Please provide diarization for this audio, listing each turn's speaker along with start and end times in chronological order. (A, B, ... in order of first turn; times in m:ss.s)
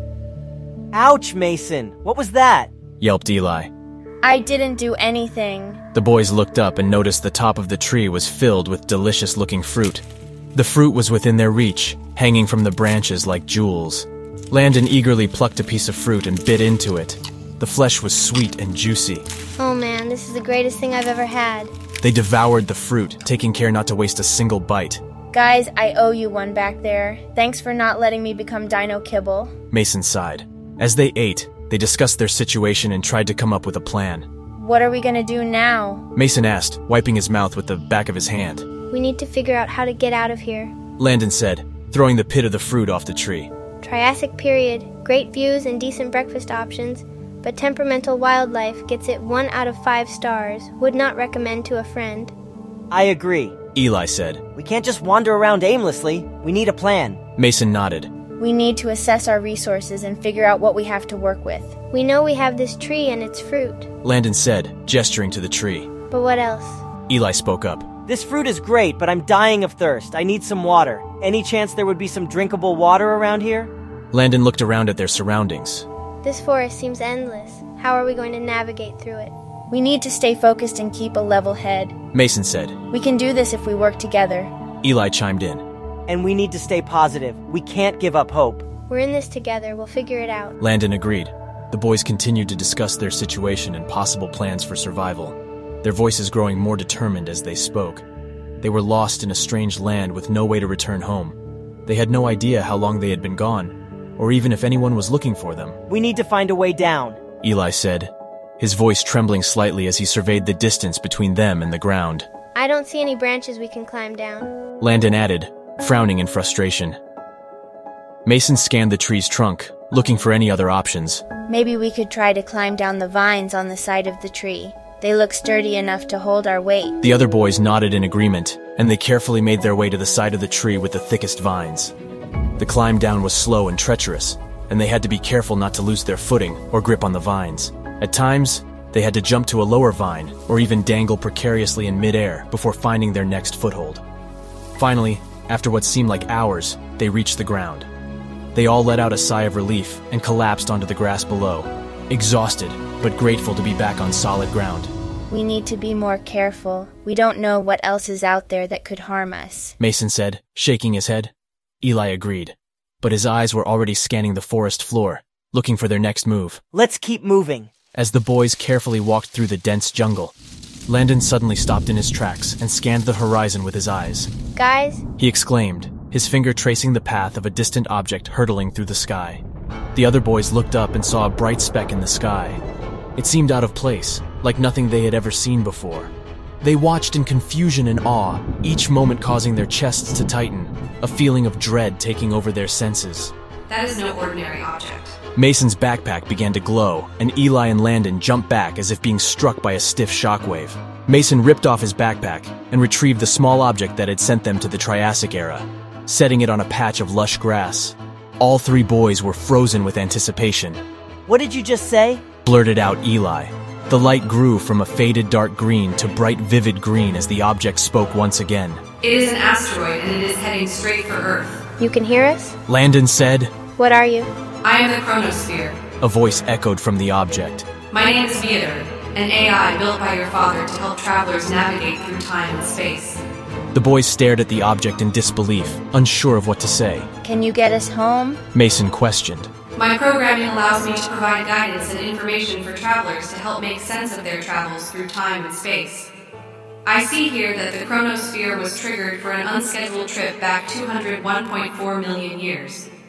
0:00.9-0:02.7 A
0:03.0-0:03.7 B
0:04.2-0:05.8 C
0:05.9-0:19.3 B
0:19.6-0:21.7 D
0:22.0-0:25.0 B
0:25.3-0:29.5 C
0:29.7-0:34.3 B
0:34.6-0:36.1 C
0:36.2-0:38.6 B
0:38.9-0:40.7 D
0:41.0-0:43.5 B
0:43.8-0:52.3 D
0:52.9-0:53.6 A
0:53.8-0:54.4 B
0:54.6-0:57.2 A
0:57.4-0:58.1 B
0:58.4-1:01.8 C
1:01.9-1:03.9 D
1:04.0-1:05.9 B
1:06.1-1:06.9 D
1:07.1-1:07.9 B
1:08.1-1:13.7 A
1:14.1-1:15.9 B
1:16.2-1:19.3 D
1:19.7-1:22.0 C
1:22.1-1:22.8 B
1:22.9-1:24.5 C
1:24.8-1:25.6 B
1:26.1-1:28.7 A
1:28.8-1:30.6 D
1:30.6-1:38.0 B
1:38.6-1:41.4 B
1:41.9-1:45.8 B
1:45.9-1:47.2 A
1:47.4-1:52.3 B
1:52.6-1:54.5 D
1:54.8-1:57.0 B
1:58.2-2:01.2 B
2:01.5-2:07.0 C
2:07.0-2:11.9 B
2:12.6-2:24.0 B
2:24.8-2:27.9 B
2:28.6-2:34.9 B
2:35.3-2:39.8 C
2:39.8-2:46.6 B
2:46.7-2:47.7 A
2:47.9-2:50.4 B
2:50.9-2:54.3 B
2:54.6-2:55.0 D
2:55.2-2:59.4 B
3:00.0-3:02.6 B
3:03.2-3:13.3 B
3:13.7-3:15.2 E
3:15.4-3:30.8 B
3:31.3-3:32.2 A
3:32.4-3:38.8 B
3:39.0-3:41.6 E
3:41.8-3:42.6 D
3:42.7-3:43.5 B
3:43.8-3:44.3 D
3:44.6-3:45.8 E
3:46.0-3:47.7 B
3:47.9-3:53.2 E
3:53.7-3:57.1 B
3:57.2-3:58.4 C
3:58.5-3:59.5 B
3:59.8-4:06.1 E
4:06.9-4:12.8 E